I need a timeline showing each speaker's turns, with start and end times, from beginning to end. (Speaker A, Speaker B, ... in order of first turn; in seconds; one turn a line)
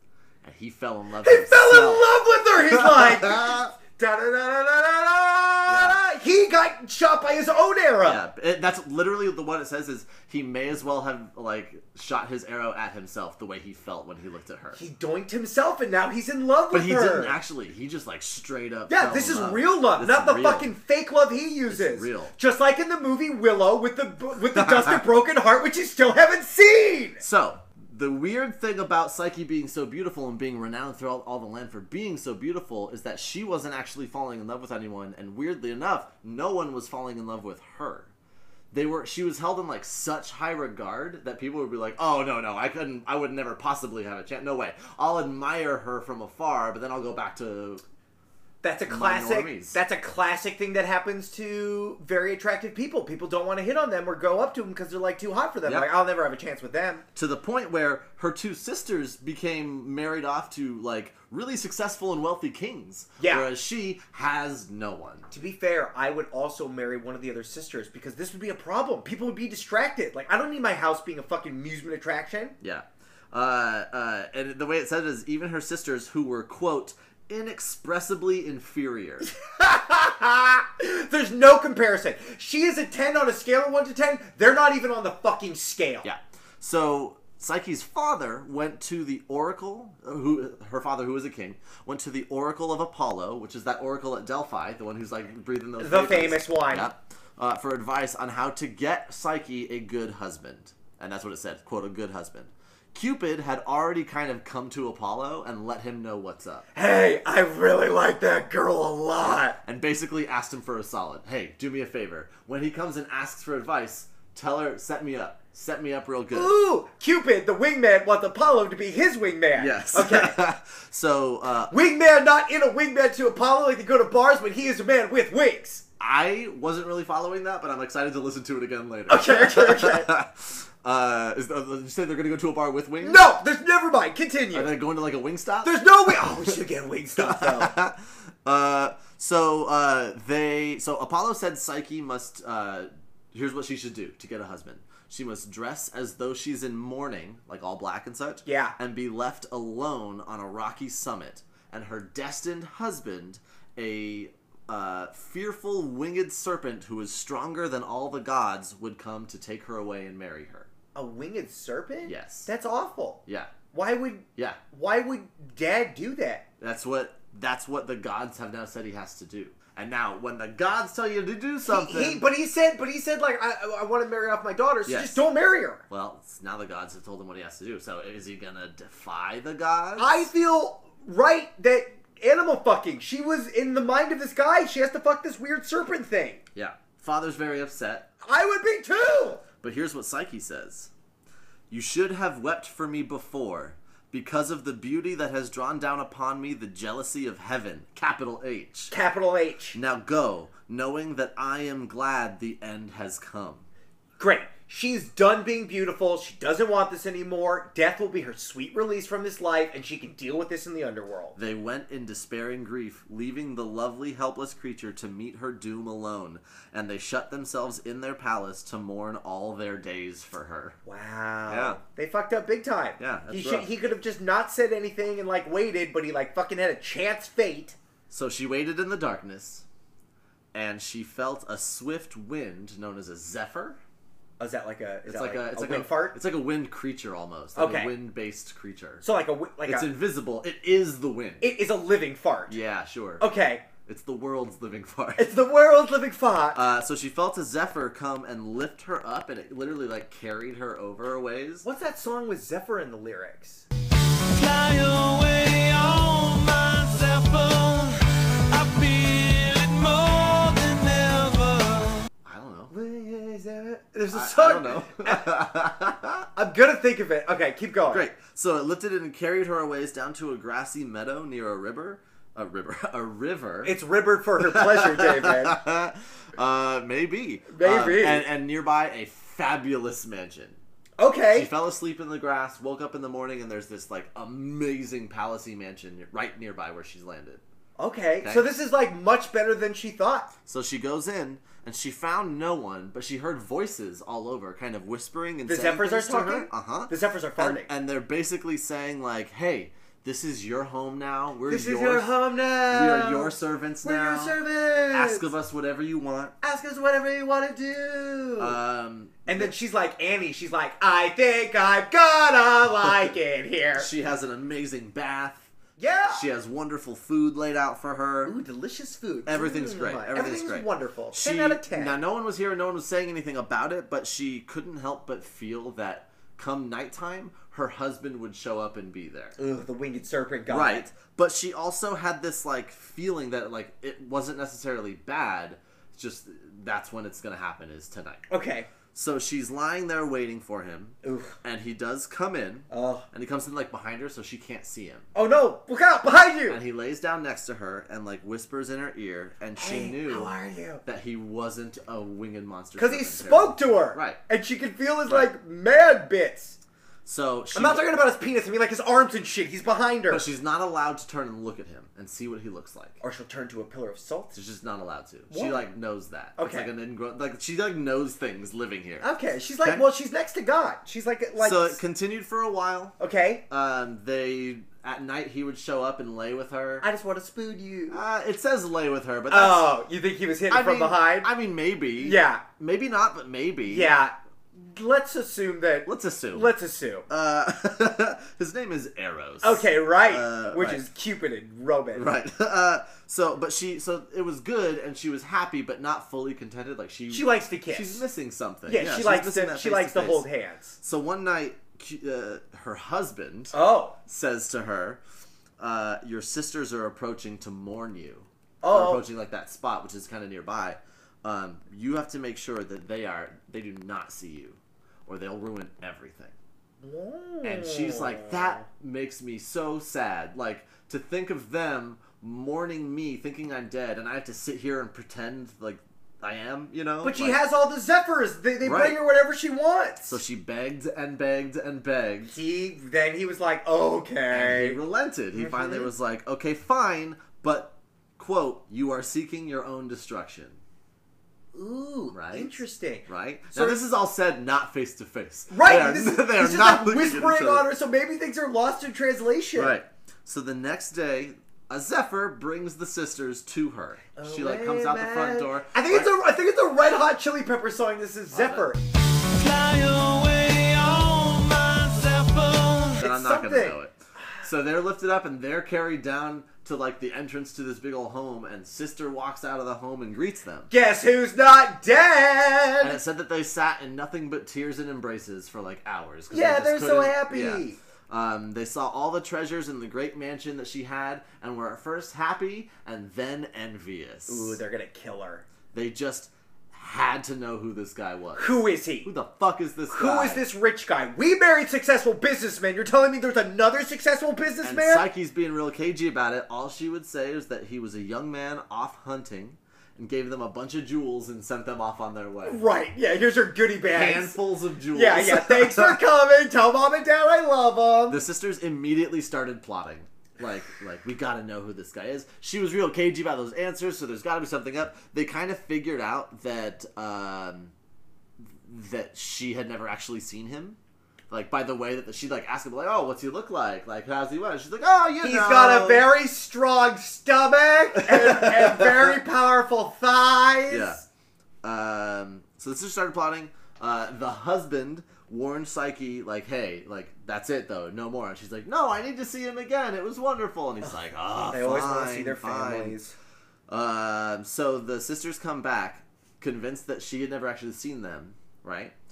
Speaker A: 0.4-3.7
Speaker B: 1.2-8.2
Speaker A: 5.7-6.0
Speaker A: 8.0-14.8
Speaker B: 14.8-17.4
Speaker A: 16.7-20.7
Speaker B: 18.9-27.2
Speaker A: 21.7-22.3
Speaker A: 24.6-25.0
Speaker A: 27.2-38.1
Speaker A: 38.7-47.8
Speaker B: 48.6-57.0
Speaker A: 48.9-49.8
Speaker A: 55.6-55.9
Speaker A: 57.1-65.3
Speaker B: 63.2-63.5
Speaker B: 65.3-72.6
Speaker A: 72.6-79.3
Speaker B: 79.4-86.1
Speaker A: 86.0-106.7
Speaker B: 95.8-96.9
Speaker B: 106.7-109.6
Speaker A: 109.6-116.5
Speaker B: 116.3-120.4
Speaker A: 119.6-121.7
Speaker B: 121.7-125.8
Speaker A: 126.0-133.2
Speaker B: 129.1-130.1
Speaker B: 133.0-134.7
Speaker A: 134.5-136.5
Speaker B: 135.6-137.8
Speaker A: 137.2-160.7
Speaker B: 148.4-148.8
Speaker B: 160.9-166.5
Speaker A: 162.1-162.5
Speaker A: 163.3-163.5
Speaker A: 166.6-172.2
Speaker B: 171.6-175.8
Speaker A: 174.9-175.2
Speaker A: 175.9-180.3
Speaker B: 180.0-186.4
Speaker A: 186.6-188.1
Speaker B: 188.2-189.4
Speaker A: 189.6-190.9
Speaker A: 191.7-198.9
Speaker B: 198.9-199.8
Speaker A: 199.8-203.7
Speaker B: 204.2-211.4
Speaker A: 211.4-220.8
Speaker B: 220.9-227.8
Speaker A: 221.5-221.8
Speaker A: 223.0-223.8
Speaker A: 228.1-229.7
Speaker A: 230.5-233.8
Speaker B: 234.4-236.2
Speaker A: 235.1-239.1
Speaker B: 237.6-237.9
Speaker B: 239.0-239.9
Speaker A: 239.7-241.5
Speaker B: 241.4-242.6
Speaker A: 242.5-243.3
Speaker B: 243.2-243.7
Speaker A: 243.8-245.3
Speaker B: 245.2-246.6
Speaker A: 246.5-251.7
Speaker B: 251.6-253.7
Speaker A: 254.4-257.9
Speaker A: 258.5-259.9
Speaker A: 260.5-261.2
Speaker A: 262.2-262.7
Speaker B: 262.7-265.3
Speaker A: 264.1-266.3
Speaker B: 266.4-268.1
Speaker A: 267.9-273.7
Speaker B: 273.6-275.6
Speaker A: 274.4-280.6
Speaker B: 277.5-278.3
Speaker B: 281.0-281.5
Speaker A: 281.3-287.4
Speaker B: 287.8-290.3
Speaker A: 288.2-288.5
Speaker A: 290.5-302.1
Speaker B: 295.5-297.7
Speaker B: 301.5-305.3
Speaker A: 302.7-304.4
Speaker A: 304.9-306.3
Speaker B: 306.4-308.6
Speaker A: 308.4-309.5
Speaker B: 309.3-313.9
Speaker A: 313.8-315.5
Speaker B: 315.8-316.3
Speaker A: 316.1-318.4
Speaker B: 318.2-322.0
Speaker A: 319.3-329.4
Speaker B: 329.4-330.9
Speaker A: 330.5-338.2
Speaker B: 338.3-338.7
Speaker A: 338.9-345.1
Speaker B: 341.0-341.4
Speaker B: 342.7-343.1
Speaker B: 345.1-346.6
Speaker A: 346.5-350.3
Speaker B: 349.6-350.8
Speaker A: 350.9-354.2
Speaker B: 352.8-356.6
Speaker A: 357.1-357.9
Speaker B: 357.5-360.3
Speaker A: 360.1-363.0
Speaker B: 363.0-364.4
Speaker A: 364.3-369.1
Speaker B: 365.3-365.7
Speaker B: 366.4-366.7
Speaker B: 369.0-371.8
Speaker A: 371.4-373.0
Speaker B: 373.0-373.4
Speaker A: 373.5-376.9
Speaker B: 376.8-378.0
Speaker A: 377.9-379.7
Speaker B: 379.3-381.3
Speaker A: 380.5-383.9
Speaker B: 382.0-382.4
Speaker B: 383.7-387.1
Speaker A: 385.9-386.5
Speaker A: 387.1-390.8
Speaker B: 389.4-392.1
Speaker A: 391.9-400.3
Speaker B: 397.1-398.0
Speaker B: 398.7-400.8
Speaker A: 400.8-403.5
Speaker B: 403.5-404.0
Speaker A: 404.1-405.0
Speaker A: 405.6-416.4
Speaker B: 408.6-409.1
Speaker B: 416.8-418.6
Speaker A: 417.4-427.4
Speaker B: 427.0-430.2
Speaker A: 428.6-429.0
Speaker A: 430.0-432.4
Speaker B: 432.3-434.8
Speaker A: 434.3-440.6
Speaker B: 435.4-435.9
Speaker B: 441.5-443.8
Speaker A: 442.1-447.7
Speaker B: 445.5-449.8
Speaker A: 449.6-456.1
Speaker B: 454.2-458.8
Speaker A: 458.3-458.7
Speaker C: 459.4-462.8
Speaker A: 462.9-470.7
Speaker B: 463.0-463.8
Speaker B: 470.7-473.0
Speaker A: 472.8-484.6
Speaker B: 476.3-477.8
Speaker B: 484.3-485.4
Speaker A: 485.7-490.4
Speaker B: 488.4-489.1
Speaker B: 489.9-495.1
Speaker A: 494.6-502.6
Speaker B: 502.4-504.4
Speaker A: 503.9-506.0
Speaker B: 504.9-508.2
Speaker A: 508.1-517.7
Speaker A: 518.4-520.8
Speaker A: 521.3-526.1
Speaker B: 525.2-531.0
Speaker A: 528.0-529.1
Speaker A: 530.7-531.0
Speaker A: 531.6-543.0
Speaker B: 541.5-543.1
Speaker A: 543.7-549.0